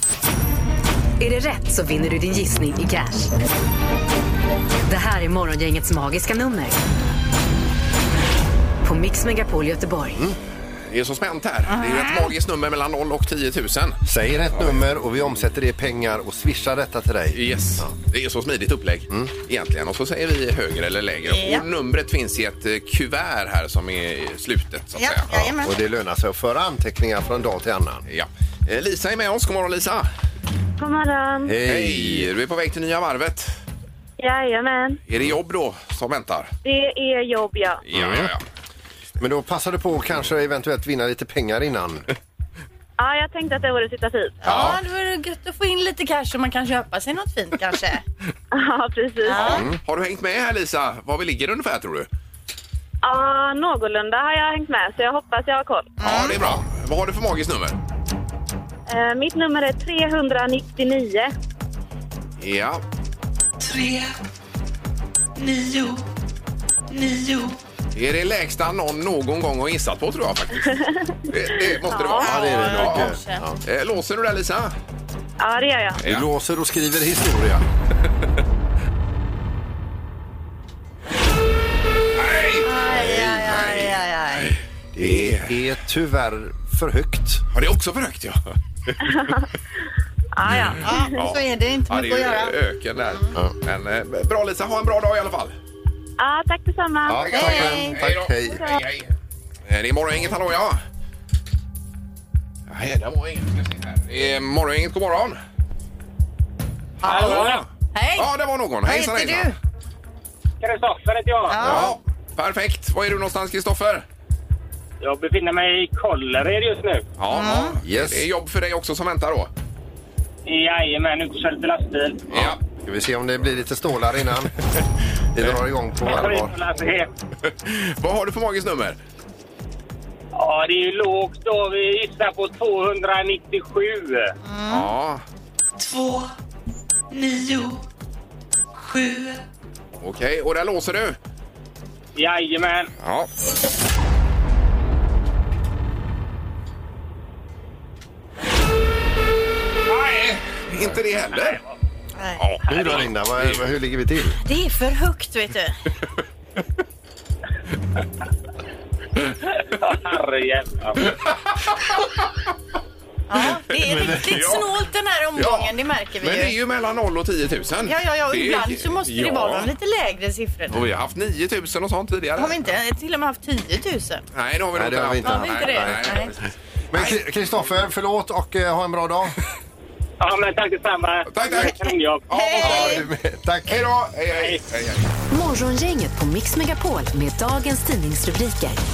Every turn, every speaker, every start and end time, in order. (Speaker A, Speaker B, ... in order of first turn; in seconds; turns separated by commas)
Speaker A: 1.2-3.3, Speaker A: 4.9-6.8, Speaker A: 8.8-10.2, Speaker B: 10.9-14.0, Speaker C: 11.7-12.3, Speaker D: 14.0-17.9, Speaker B: 17.3-25.5, Speaker C: 21.2-21.6, Speaker C: 25.0-25.8, Speaker D: 25.3-28.0, Speaker B: 28.1-30.1, Speaker E: 30.8-31.6, Speaker D: 31.4-32.3, Speaker B: 31.6-33.5, Speaker E: 34.2-35.0, Speaker B: 35.1-36.5, Speaker E: 36.6-37.8, Speaker B: 37.9-38.4, Speaker D: 37.9-38.3, Speaker D: 39.2-42.1, Speaker E: 43.0-44.4, Speaker C: 44.4-48.0, Speaker B: 44.4-44.8, Speaker E: 48.5-49.7, Speaker C: 49.2-49.6, Speaker D: 49.4-49.8, Speaker B: 49.4-52.1, Speaker E: 53.0-56.0, Speaker C: 56.0-56.5, Speaker B: 56.0-57.8, Speaker E: 58.9-61.3, Speaker B: 62.4-62.8, Speaker F: 63.6-64.1, Speaker F: 65.4-66.0, Speaker F: 66.9-67.5, Speaker B: 67.9-73.1, Speaker E: 70.8-71.1, Speaker E: 71.9-72.6, Speaker C: 72.2-73.4, Speaker D: 72.2-73.6, Speaker B: 73.6-74.7, Speaker E: 75.4-76.0, Speaker D: 76.0-77.6, Speaker B: 82.2-82.7, Speaker C: 82.6-84.5, Speaker D: 82.9-83.9, Speaker B: 84.3-85.7, Speaker D: 84.9-87.4, Speaker B: 87.5-89.0, Speaker E: 89.0-89.5, Speaker E: 90.3-91.0, Speaker C: 90.8-92.5, Speaker B: 91.1-95.5, Speaker E: 96.2-97.8, Speaker D: 97.0-98.6, Speaker B: 97.2-99.1, Speaker C: 97.3-97.9, Speaker E: 98.5-98.8, Speaker B: 99.7-100.8, Speaker B: 102.7-105.4, Speaker C: 107.0-108.3, Speaker B: 107.0-107.6, Speaker G: 107.1-107.6, Speaker B: 108.2-109.5, Speaker C: 108.8-109.6, Speaker G: 110.6-111.6, Speaker C: 111.5-112.0, Speaker B: 111.6-114.0, Speaker G: 115.0-117.1, Speaker B: 117.2-119.5, Speaker C: 117.3-117.8, Speaker D: 117.8-118.2, Speaker G: 120.5-122.3, Speaker B: 122.3-122.6, Speaker D: 122.4-124.5, Speaker D: 125.3-126.5, Speaker G: 126.0-127.1, Speaker B: 127.5-129.0, Speaker G: 130.3-134.3, Speaker C: 134.4-134.9, Speaker B: 134.7-135.2, Speaker F: 135.8-136.3, Speaker F: 137.1-137.8, Speaker F: 138.8-139.4, Speaker B: 140.0-141.2, Speaker G: 142.2-142.9, Speaker B: 143.0-143.3, Speaker B: 149.9-151.6, Speaker C: 152.2-152.4, Speaker B: 152.4-153.6, Speaker D: 152.7-154.4, Speaker C: 154.4-155.8, Speaker G: 159.8-161.1, Speaker C: 163.3-166.5, Speaker B: 163.8-164.7, Speaker B: 165.3-169.7, Speaker C: 167.8-170.8, Speaker B: 170.7-172.7, Speaker C: 172.4-174.2, Speaker B: 174.3-176.4, Speaker D: 174.7-176.4, Speaker C: 175.2-176.3, Speaker D: 176.9-179.3, Speaker G: 180.2-182.2, Speaker B: 181.3-183.1, Speaker C: 182.3-183.0, Speaker D: 182.6-183.8, Speaker B: 183.6-185.1, Speaker G: 184.4-184.6, Speaker A: 185.3-188.8